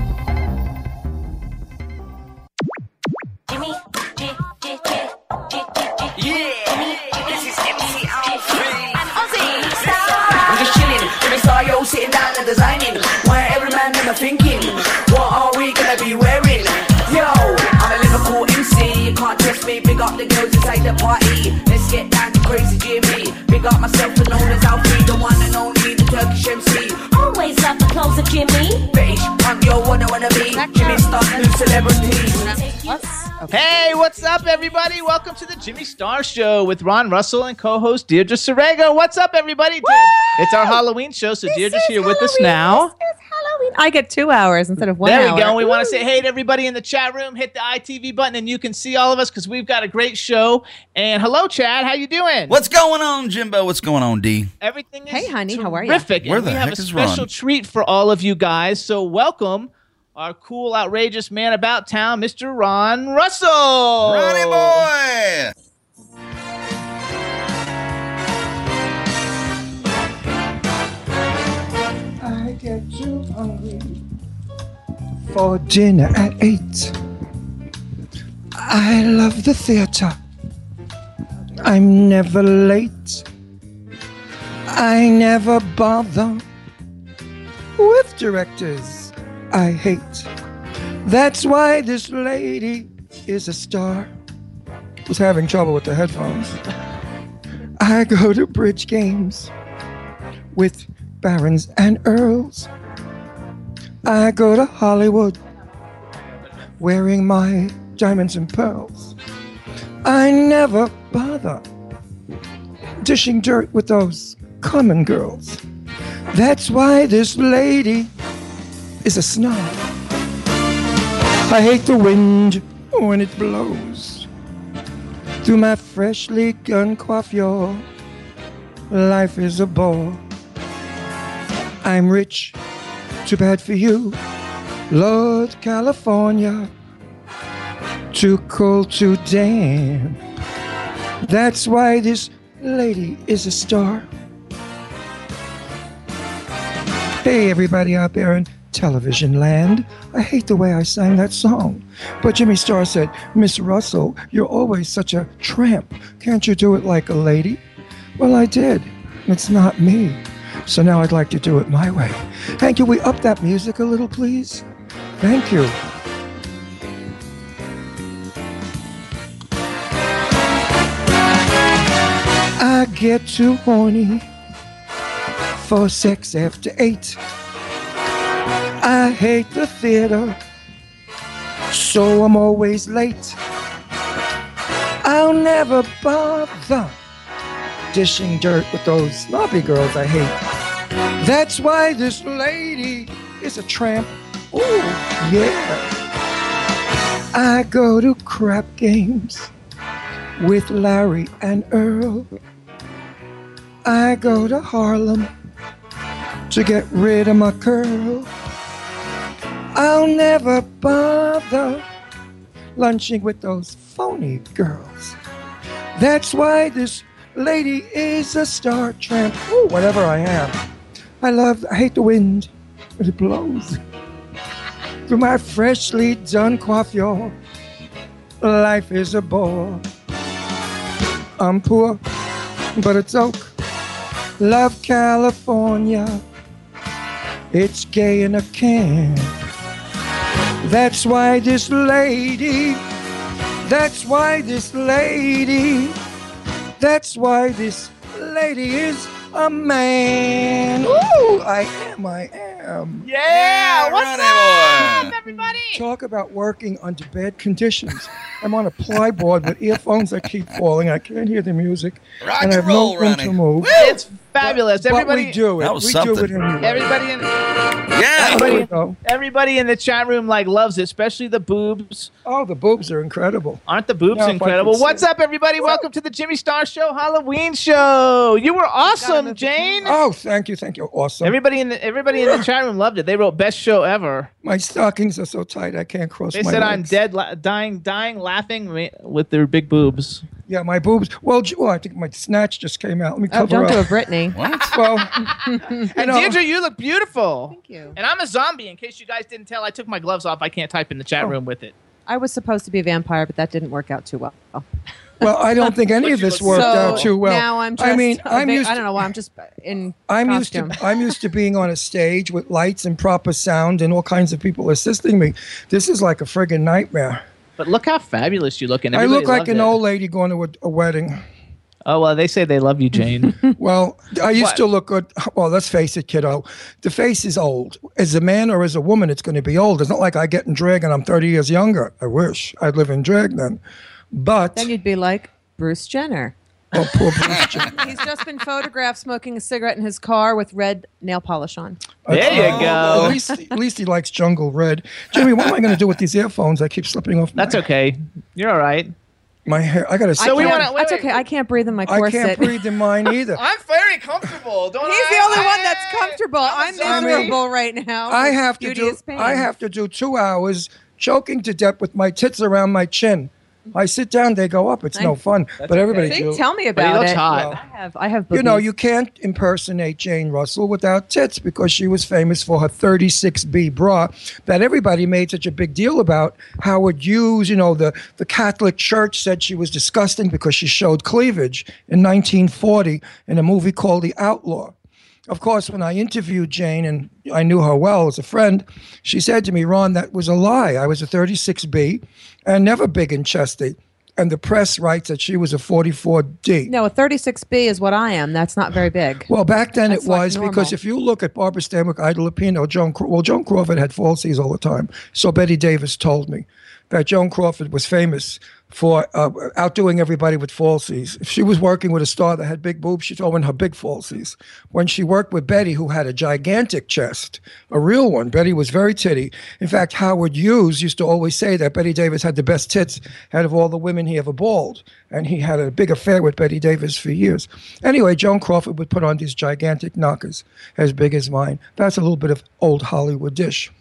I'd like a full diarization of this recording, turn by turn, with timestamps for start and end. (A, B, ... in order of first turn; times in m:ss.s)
0:06.1-0:27.2 A
0:27.2-0:28.8 B
0:28.8-0:32.6 A
0:30.5-0:31.1 C
0:32.6-0:33.0 B
0:32.9-0:33.9 C
0:33.5-0:42.9 D
0:41.5-0:46.0 C
0:45.0-0:52.5 D
0:52.5-0:54.5 E
0:54.6-1:04.8 D
0:55.1-0:56.1 C
0:56.2-0:57.3 E
1:04.0-1:05.5 E
1:12.2-1:14.0 F
1:15.3-1:17.0 F
1:18.5-1:20.2 F
1:21.6-1:23.3 F
1:24.7-1:26.4 F
1:27.8-1:30.3 F
1:31.0-1:34.1 F
1:35.0-1:36.6 F
1:37.8-1:39.5 F
1:40.5-1:42.7 F
1:44.0-1:45.4 F
1:46.8-1:49.1 F
1:50.0-1:51.6 F
1:53.0-1:55.6 F
1:56.3-1:58.1 F
1:59.0-1:59.8 F
2:01.4-2:04.3 F
2:05.4-2:07.8 F
2:08.9-2:10.2 F
2:11.8-2:12.6 F
2:13.2-2:14.2 F
2:14.9-2:16.7 F
2:18.1-2:20.2 F
2:21.2-2:24.1 F
2:27.2-2:37.6 F
2:38.2-2:44.6 F
2:45.2-2:45.8 F
2:52.6-2:54.3 F
2:55.5-2:57.2 F
2:58.8-3:00.4 F
3:01.7-3:03.4 F
3:05.0-3:07.0 F
3:07.9-3:10.4 F
3:11.2-3:15.9 F
3:17.3-3:19.5 F
3:20.4-3:22.3 F
3:23.8-3:25.3 F
3:26.5-3:28.3 F
3:29.7-3:31.8 F
3:32.8-3:35.2 F
3:36.0-3:40.6 F
3:41.2-3:43.8 F
3:45.1-3:47.3 F
3:48.4-3:49.8 F
3:51.4-3:52.0 F
3:52.8-3:53.5 F
3:54.4-3:56.2 F
3:57.5-3:59.3 F
4:00.6-4:02.8 F
4:03.6-4:06.0 F
4:06.8-4:13.1 F
4:10.8-4:11.2 D
4:13.0-4:15.8 D
4:13.3-4:15.2 E
4:15.7-4:23.7 F
4:22.2-4:24.0 E
4:23.8-4:25.4 D
4:24.4-4:26.9 F
4:25.6-4:26.8 E
4:26.6-4:27.3 D
4:27.9-4:28.6 E
4:28.2-4:32.1 D
4:28.2-4:29.0 F
4:32.2-4:35.1 F
4:33.7-4:39.9 D
4:38.8-4:39.9 C
4:39.8-4:41.4 F
4:41.2-4:44.3 D
4:42.1-4:42.4 F
4:44.4-4:46.9 F
4:46.3-4:50.2 D
4:50.4-4:53.9 F
4:53.3-4:54.4 C
4:54.3-4:54.8 E
4:54.6-4:55.3 F
4:55.2-4:55.9 C
4:55.9-4:56.4 F
4:55.9-5:01.7 D
4:57.5-4:58.0 C
5:02.1-5:04.6 C
5:05.2-5:08.8 F
5:06.0-5:07.1 D
5:06.5-5:10.8 C
5:10.1-5:17.2 F
5:17.6-5:19.8 D
5:18.9-5:21.2 F
5:21.8-5:23.4 D
5:23.6-5:33.6 F
5:34.1-5:34.7 F
5:34.5-5:36.3 C
5:36.7-5:37.7 F
5:37.6-5:41.8 C
5:42.1-5:47.6 F
5:42.1-5:43.2 D
5:42.2-5:43.2 E
5:47.4-5:48.9 D
5:49.4-5:50.7 F
5:50.2-5:52.5 C
5:50.2-5:51.2 D
5:51.8-5:53.4 F
5:53.3-5:57.4 D
5:54.8-5:59.5 C
5:56.8-5:57.4 F
5:58.1-6:06.4 F
6:05.6-6:07.5 D
6:06.0-6:08.6 C
6:07.2-6:07.6 F
6:08.3-6:24.7 F
6:25.3-6:36.7 F
6:36.7-6:39.3 C
6:39.3-7:13.7 F
6:39.9-6:40.7 C